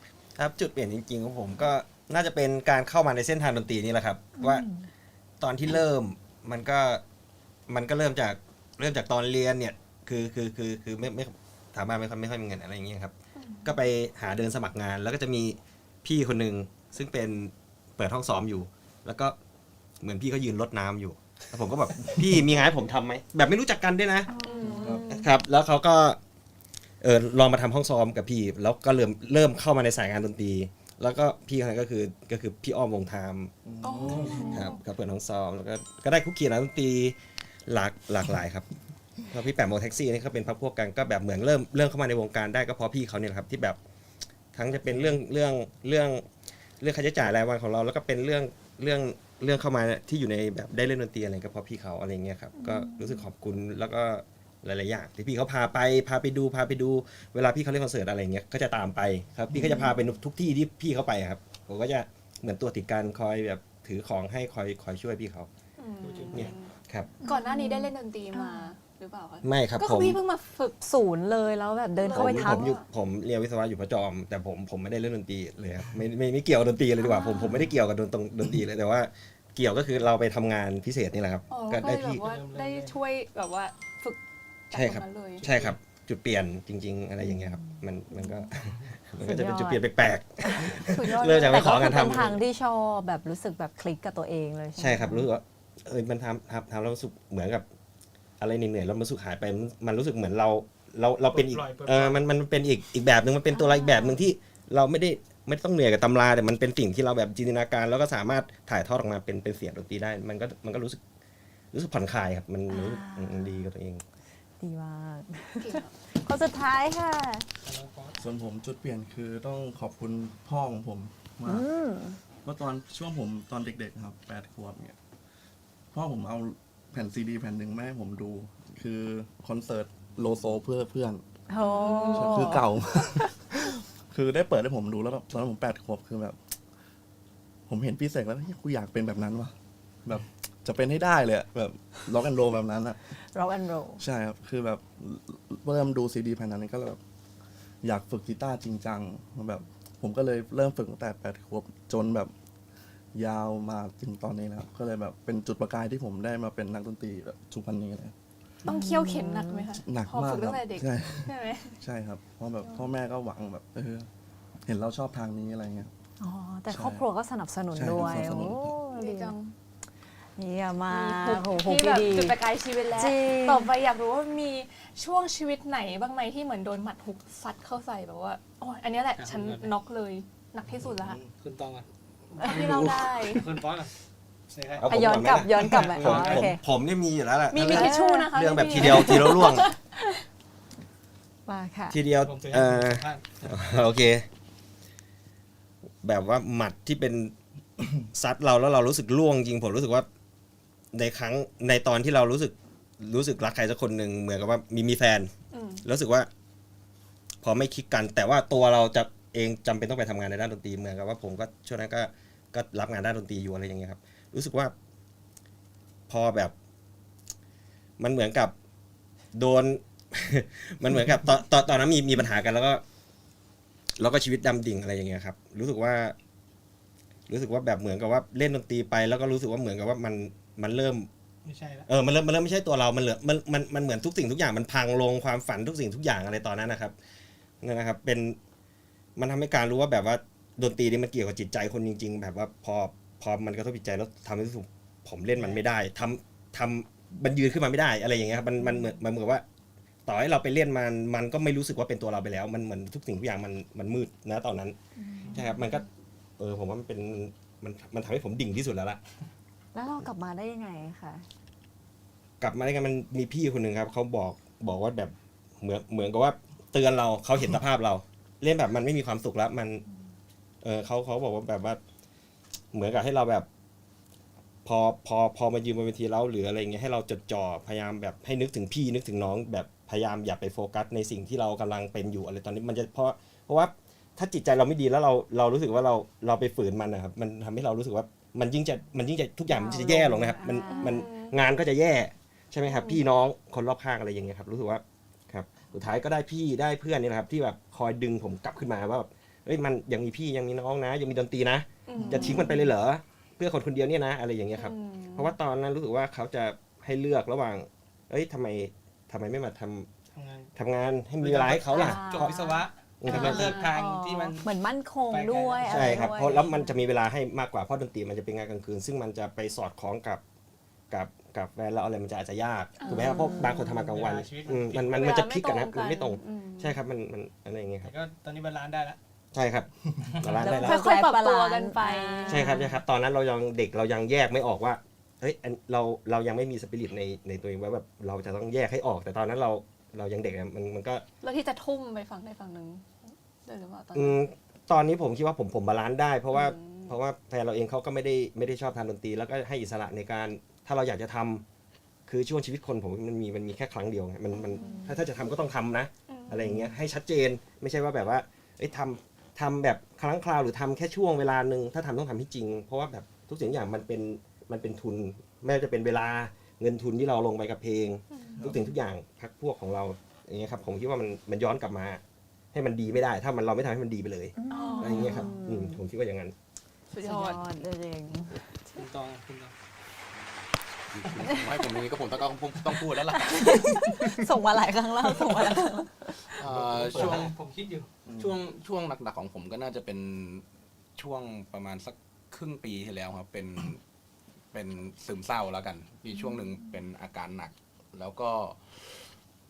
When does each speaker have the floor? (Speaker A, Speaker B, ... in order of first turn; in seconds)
Speaker A: 0.3-4.7, 5.4-7.0, 7.7-13.1, 13.6-19.3, 20.0-24.3, 25.1-26.2, 27.0-33.5, 34.5-38.7, 39.3-43.8, 44.5-46.2, 46.8-65.5, 66.3-67.2, 69.4-70.2, 72.1-82.2, 84.7-92.4, 94.8-97.6, 98.4-111.0, 111.7-114.0, 184.8-189.7, 191.9-194.2, 196.0-197.3, 198.1-200.1, 200.9-205.3, 205.8-206.3, 207.4-214.7, 216.1-216.5, 218.0-218.5, 219.3-222.8, 224.0-226.2, 227.3-231.1, 231.9-236.9, 237.6-238.4, 239.2-249.4, 250.1-254.8, 255.3-255.8, 256.4-259.0, 262.4-269.8, 270.6-271.8, 272.7-273.5, 274.6-309.9, 310.5-312.4, 313.0-313.6, 315.6-320.2, 320.9-327.9, 329.3-330.9, 332.3-341.0, 343.9-351.4, 352.1-372.0, 372.5-376.3
Speaker B: 4.4-4.8, 24.3-25.0, 52.6-53.2, 59.5-59.9, 67.2-68.7, 70.8-72.7, 87.2-88.5, 89.2-89.8, 90.4-95.3, 103.5-104.2, 112.7-113.6, 114.6-117.4, 121.5-122.2, 131.5-132.7, 143.2-144.0, 158.6-159.8, 166.2-169.3, 170.3-172.4, 172.9-173.7, 182.4-182.7, 184.8-186.6, 187.7-189.3, 191.4-192.0, 255.0-255.5, 259.7-261.3, 289.5-291.1, 311.7-312.2, 313.1-316.7, 322.9-323.6, 330.4-332.7, 374.4-375.8, 377.0-378.8, 383.2-386.2
Speaker C: 13.3-13.7, 24.4-25.3, 33.8-34.8, 65.8-70.8, 72.0-72.8, 77.1-77.6, 81.5-84.2, 84.7-85.5, 90.8-92.1, 115.6-115.9, 131.6-132.4, 158.6-161.8, 168.8-169.5, 170.9-181.2, 182.4-183.5, 187.5-190.1, 205.5-205.8, 290.6-291.4, 292.6-293.0, 301.9-302.7, 304.6-305.3, 311.7-313.7, 322.8-323.6, 324.9-326.8, 330.4-332.8, 341.2-344.2, 346.3-346.9, 354.3-355.0, 356.1-356.7, 368.1-368.4, 374.5-375.3, 376.9-377.4
Speaker D: 24.8-25.0, 33.6-34.7, 118.2-121.7, 122.4-125.0, 125.9-131.2, 132.1-136.4, 137.7-139.5, 140.0-143.2, 144.0-147.0, 147.8-152.3, 153.1-158.1, 159.8-164.1, 164.7-165.9, 166.7-167.0, 167.7-168.8, 180.7-181.2, 388.1-388.3
Speaker E: 44.9-45.2, 66.0-66.5, 82.2-83.0, 85.4-85.8, 101.3-102.3, 117.6-118.2, 179.2-179.7, 181.3-183.9, 184.5-184.8, 185.5-186.5, 192.2-193.6, 231.4-231.9, 245.3-245.6, 310.1-310.5, 311.2-314.5, 315.1-316.2, 323.6-325.1, 327.8-329.0, 378.8-379.5, 386.8-387.9
Speaker F: 380.9-384.3, 386.3-387.3, 388.1-390.4, 391.0-393.8, 394.5-399.1